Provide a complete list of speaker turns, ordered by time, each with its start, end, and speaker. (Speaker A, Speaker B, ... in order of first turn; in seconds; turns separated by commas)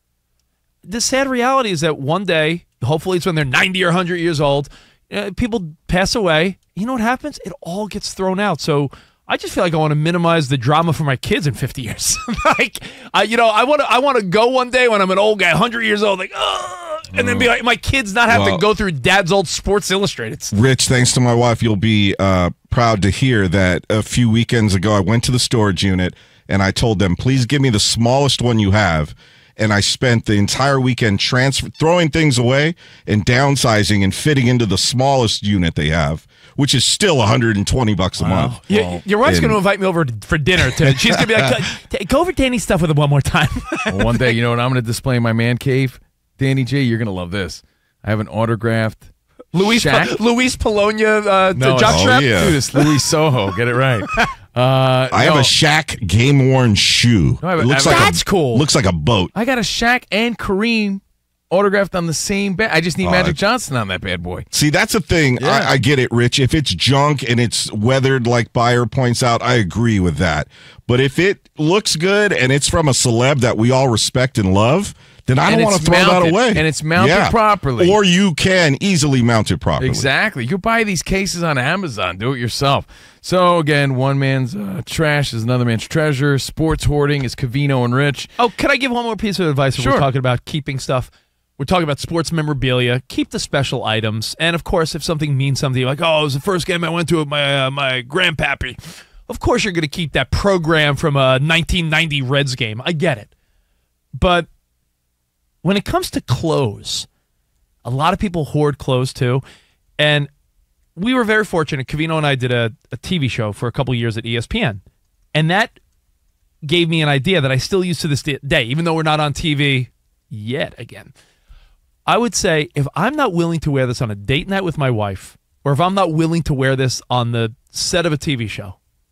Speaker A: 0.8-20.5, Speaker B: 18.3-18.6, Speaker B: 20.5-38.6, Speaker C: 38.2-39.0, Speaker A: 38.4-44.3, Speaker B: 39.2-39.6, Speaker C: 43.9-50.1, Speaker A: 49.5-53.0, Speaker C: 51.5-55.5, Speaker B: 51.9-52.6, Speaker B: 55.1-59.3, Speaker C: 57.4-58.1, Speaker A: 57.8-58.6, Speaker C: 59.3-64.5, Speaker B: 63.0-63.4, Speaker B: 64.5-80.1, Speaker C: 65.4-65.7, Speaker C: 75.5-78.0, Speaker C: 79.8-88.3, Speaker A: 88.4-103.3, Speaker C: 89.8-90.1, Speaker A: 104.1-104.5, Speaker A: 105.6-107.1, Speaker A: 107.8-109.4, Speaker A: 110.0-110.3, Speaker A: 111.0-114.8, Speaker A: 115.3-115.7, Speaker A: 116.7-121.1, Speaker A: 122.0-128.8